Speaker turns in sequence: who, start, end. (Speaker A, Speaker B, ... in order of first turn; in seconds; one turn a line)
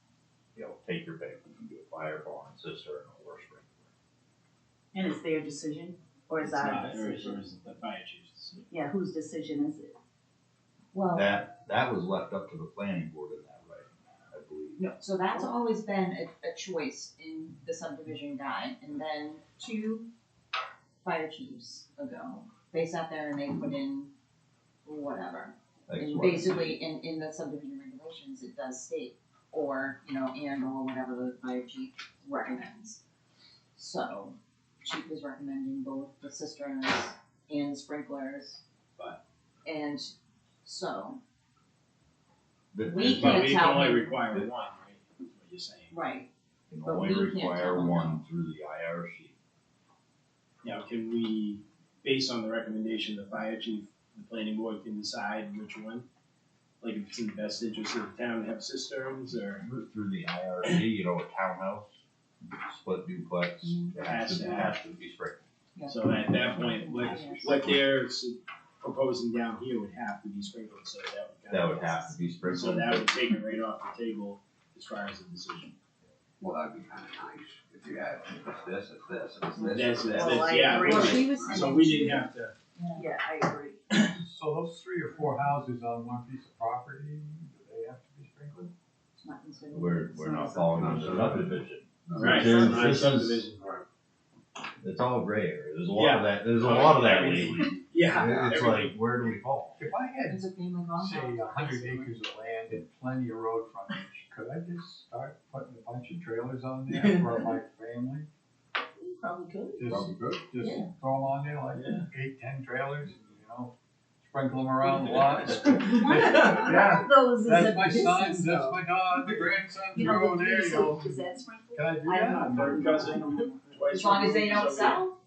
Speaker A: 0.5-3.8
Speaker B: 4.9-7.5
Speaker C: 6.4-8.7
Speaker B: 8.7-10.0
Speaker D: 10.9-11.4
Speaker A: 11.1-14.8
Speaker D: 14.8-20.1
Speaker D: 21.0-24.1
Speaker D: 24.8-33.0
Speaker A: 25.9-26.8
Speaker D: 33.7-38.6
Speaker D: 39.6-41.2
Speaker A: 42.7-43.6
Speaker D: 42.8-44.2
Speaker C: 43.1-45.9
Speaker D: 45.9-46.3
Speaker A: 46.7-49.3
Speaker D: 46.8-48.2
Speaker C: 50.6-56.0
Speaker C: 56.8-59.6
Speaker A: 59.5-62.0
Speaker A: 62.6-65.4
Speaker D: 63.6-64.7
Speaker C: 64.0-64.9
Speaker D: 65.7-67.6
Speaker C: 65.8-75.7
Speaker A: 66.7-67.8
Speaker A: 71.5-73.1
Speaker E: 76.4-81.7
Speaker D: 79.5-83.1
Speaker C: 79.6-82.5
Speaker B: 80.2-81.8
Speaker B: 82.9-83.8
Speaker F: 84.0-88.7
Speaker D: 85.1-85.5
Speaker D: 89.2-90.8
Speaker A: 89.7-93.5
Speaker B: 90.8-91.2
Speaker E: 90.8-91.5
Speaker E: 92.1-93.0
Speaker C: 92.1-93.6
Speaker E: 93.6-93.8
Speaker A: 94.8-99.8
Speaker C: 95.9-98.9
Speaker E: 98.1-98.5
Speaker F: 99.8-108.3
Speaker D: 100.2-102.1
Speaker C: 106.9-107.4
Speaker D: 109.0-109.8
Speaker F: 109.8-121.2
Speaker E: 109.9-110.5
Speaker D: 110.6-110.9
Speaker C: 111.7-112.0
Speaker C: 114.9-116.7
Speaker B: 115.5-124.1
Speaker F: 121.7-122.8
Speaker C: 122.4-125.1
Speaker D: 123.9-125.1